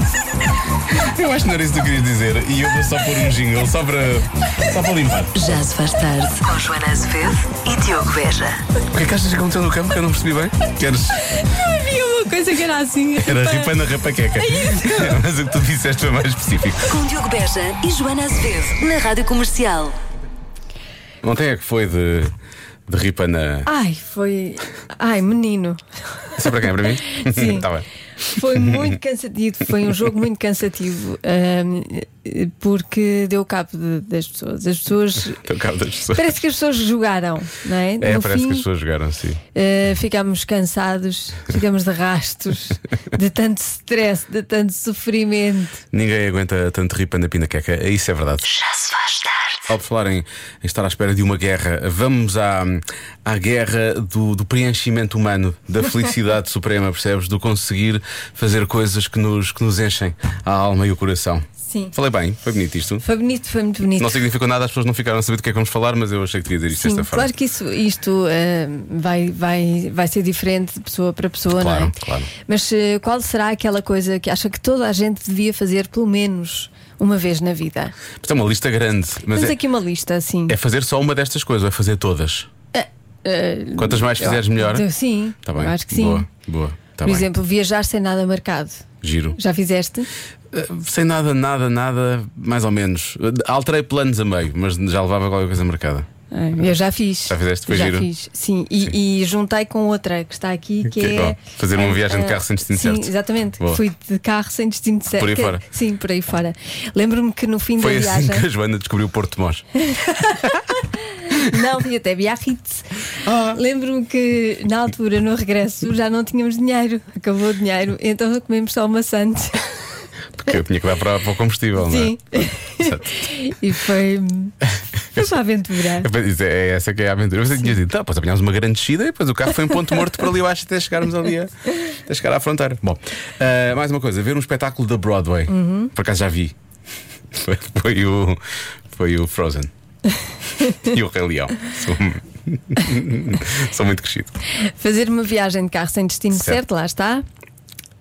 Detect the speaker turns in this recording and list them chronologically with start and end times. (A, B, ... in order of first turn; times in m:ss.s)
0:00.9-0:05.5 A
0:05.4-0:08.6 B
0:08.9-0:11.2 A
0:11.3-0:13.8 C
0:13.2-0:16.9 A
0:14.4-0:15.2 C
0:16.9-0:20.0 B
0:21.2-0:22.3 A
0:22.9-0:23.7 A
0:23.7-0:26.4 C
0:26.4-0:27.9 A
0:27.1-0:27.6 C
0:28.2-0:35.4 C
0:28.4-0:28.9 A
0:35.3-0:36.3 A
0:36.1-0:38.7 C
0:38.0-0:39.4 A
0:39.5-0:45.8 C
0:45.9-0:48.4 A
0:48.4-0:49.6 B
0:49.7-1:03.0 A
1:01.7-1:01.9 C
1:03.0-1:04.2 C
1:04.0-1:07.3 A
1:06.7-1:11.9 C
1:11.5-1:12.3 A
1:12.5-1:17.9 C
1:18.2-1:19.6 A
1:19.3-1:20.6 C
1:20.5-1:22.5 A
1:22.7-1:26.3 C
1:23.8-1:24.9 A
1:25.4-1:27.3 A
1:27.0-1:28.8 C
1:29.0-1:29.4 A
1:29.4-1:30.1 C
1:30.5-1:36.1 A
1:36.3-1:48.4 C
1:37.3-1:38.1 A
1:40.9-1:43.8 A
1:45.2-1:45.6 A
1:47.8-1:49.6 A
1:49.8-1:50.6 C
1:51.3-1:52.9 C
1:53.2-1:53.6 A
1:53.5-1:59.7 C
2:00.4-2:03.1 A
2:01.8-2:04.6 C
2:05.2-2:06.1 C
2:06.0-2:16.6 A
2:15.5-2:15.9 C
2:17.3-2:18.4 A
2:18.9-2:19.7 A
2:20.8-2:24.3 A
2:24.6-2:27.2 C
2:26.3-2:26.6 A